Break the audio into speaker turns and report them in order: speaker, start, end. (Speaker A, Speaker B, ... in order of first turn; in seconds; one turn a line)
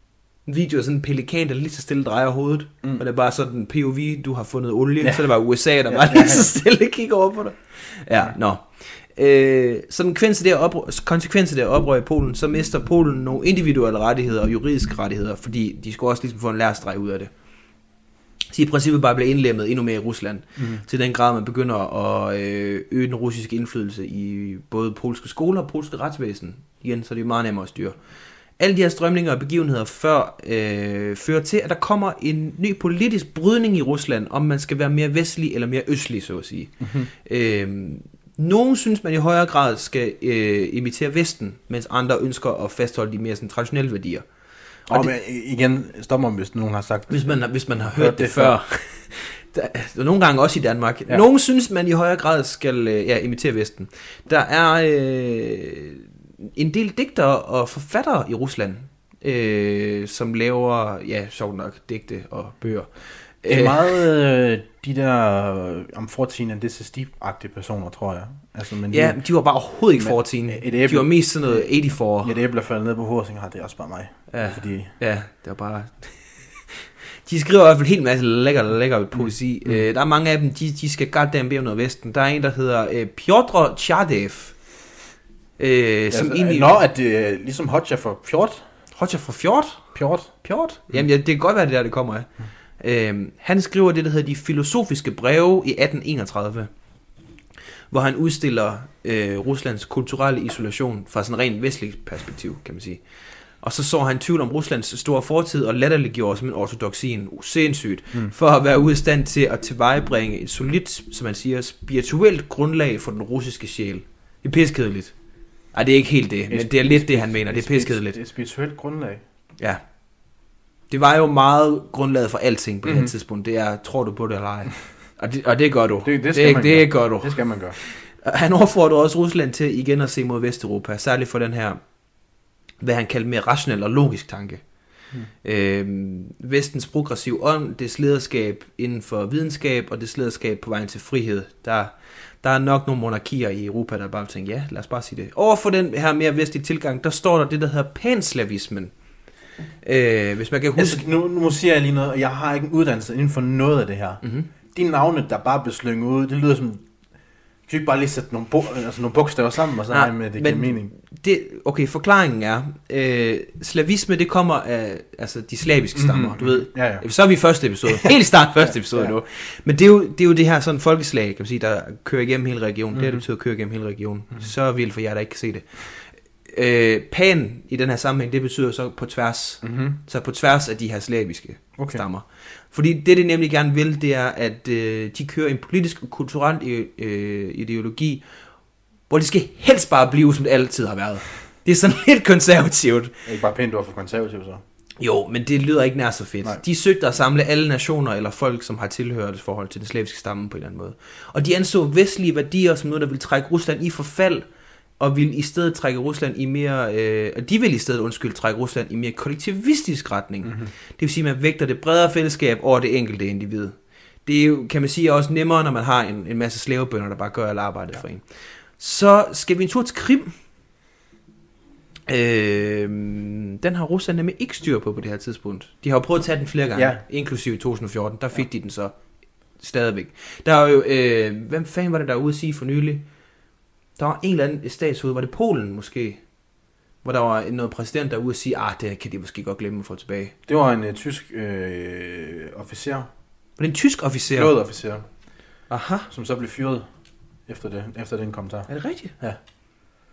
Speaker A: 0.5-17.3
Speaker B: 5.9-6.5
Speaker A: 18.5-27.9
Speaker B: 20.6-20.8
Speaker A: 28.6-44.2
Speaker B: 36.8-37.1
Speaker B: 44.9-48.6
Speaker A: 47.1-62.9
Speaker A: 63.4-63.9
Speaker B: 63.5-69.2
Speaker A: 68.9-72.3
Speaker B: 70.0-71.7
Speaker B: 72.2-74.9
Speaker A: 74.3-84.5
Speaker A: 85.6-86.8
Speaker B: 86.1-88.6
Speaker A: 89.0-89.9
Speaker B: 90.0-90.3
Speaker A: 90.4-92.3
Speaker A: 92.8-96.7
Speaker A: 97.9-103.0
Speaker A: 103.6-115.1
Speaker A: 115.7-118.2
Speaker B: 116.5-119.2
Speaker A: 120.9-131.8
Speaker B: 122.8-123.1
Speaker B: 126.0-127.8
Speaker A: 132.8-134.6
Speaker A: 135.4-148.9
Speaker A: 149.8-151.0
Speaker B: 150.8-156.8
Speaker B: 157.7-160.9
Speaker A: 159.9-188.2
Speaker B: 165.9-167.0
Speaker B: 167.9-169.1
Speaker B: 172.9-173.2
Speaker B: 179.6-180.0
Speaker B: 181.8-182.0
Speaker A: 189.1-193.1
Speaker B: 193.2-194.6
Speaker A: 195.0-204.4
Speaker A: 205.0-213.8
Speaker B: 210.4-210.7
Speaker A: 214.2-218.2
Speaker A: 218.8-220.3
Speaker A: 222.1-228.9
Speaker B: 226.8-227.0
Speaker A: 229.6-233.0
Speaker A: 234.0-236.2
Speaker A: 237.0-240.3
Speaker B: 240.5-243.1
Speaker A: 243.6-244.5
Speaker B: 244.3-245.0
Speaker A: 245.7-246.1
Speaker B: 246.1-246.8
Speaker B: 247.5-248.7
Speaker A: 248.7-249.1